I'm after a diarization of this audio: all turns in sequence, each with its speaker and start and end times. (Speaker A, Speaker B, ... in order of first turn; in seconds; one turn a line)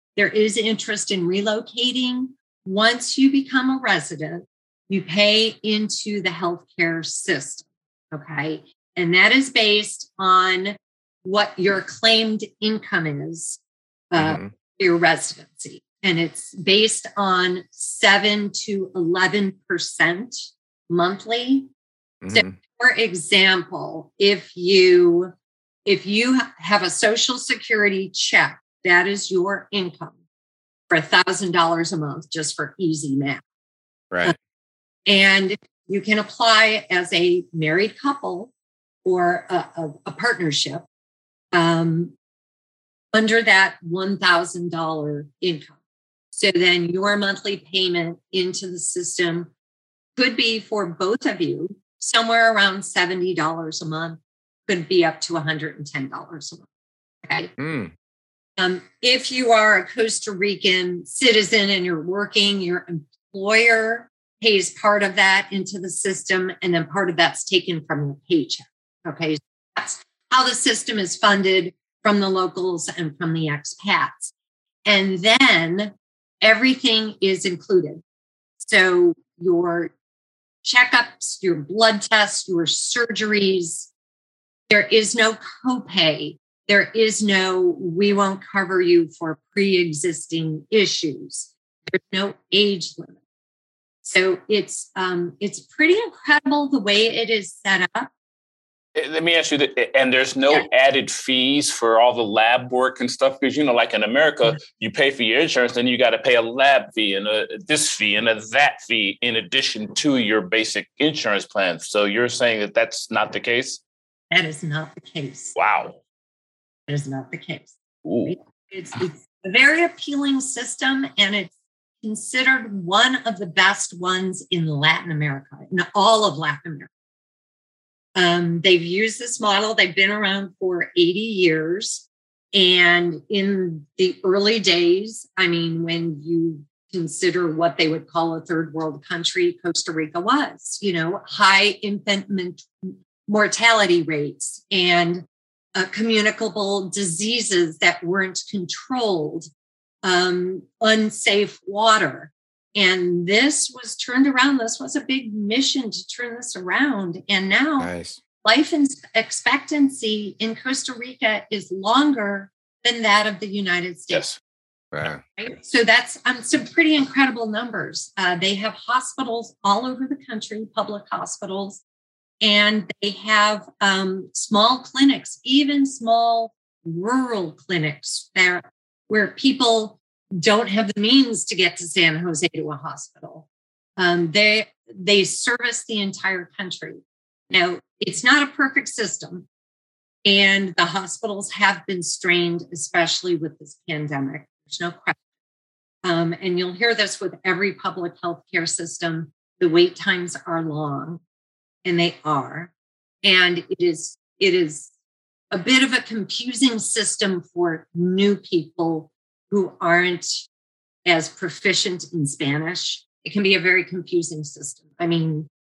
Speaker A: 0.2-21.7
Speaker B: 14.2-14.5
Speaker B: 22.2-22.6
Speaker A: 22.3-25.3
Speaker A: 25.9-30.1
Speaker A: 30.9-33.4
Speaker A: 35.1-38.5
Speaker A: 39.0-40.9
Speaker A: 41.5-42.1
Speaker A: 43.1-45.8
Speaker A: 46.3-49.5
Speaker A: 50.2-56.7
Speaker A: 57.2-57.5
Speaker B: 57.6-57.9
Speaker A: 58.6-74.3
Speaker A: 74.9-78.0
Speaker A: 78.6-79.9
Speaker A: 80.6-83.9
Speaker A: 84.7-93.2
Speaker A: 94.0-98.1
Speaker C: 99.0-113.8
Speaker A: 114.3-115.6
Speaker C: 115.5-116.0
Speaker A: 116.9-126.9
Speaker C: 118.0-118.3
Speaker A: 128.2-149.5
Speaker A: 150.0-157.9
Speaker B: 157.8-158.2
Speaker A: 158.4-164.3
Speaker C: 164.1-164.4
Speaker B: 164.9-165.2
Speaker A: 165.4-171.8
Speaker A: 172.4-183.5
Speaker A: 184.0-189.5
Speaker A: 190.3-195.2
Speaker A: 196.1-201.2
Speaker A: 201.8-202.7
Speaker A: 203.2-204.9
Speaker A: 205.5-210.5
Speaker A: 211.1-215.5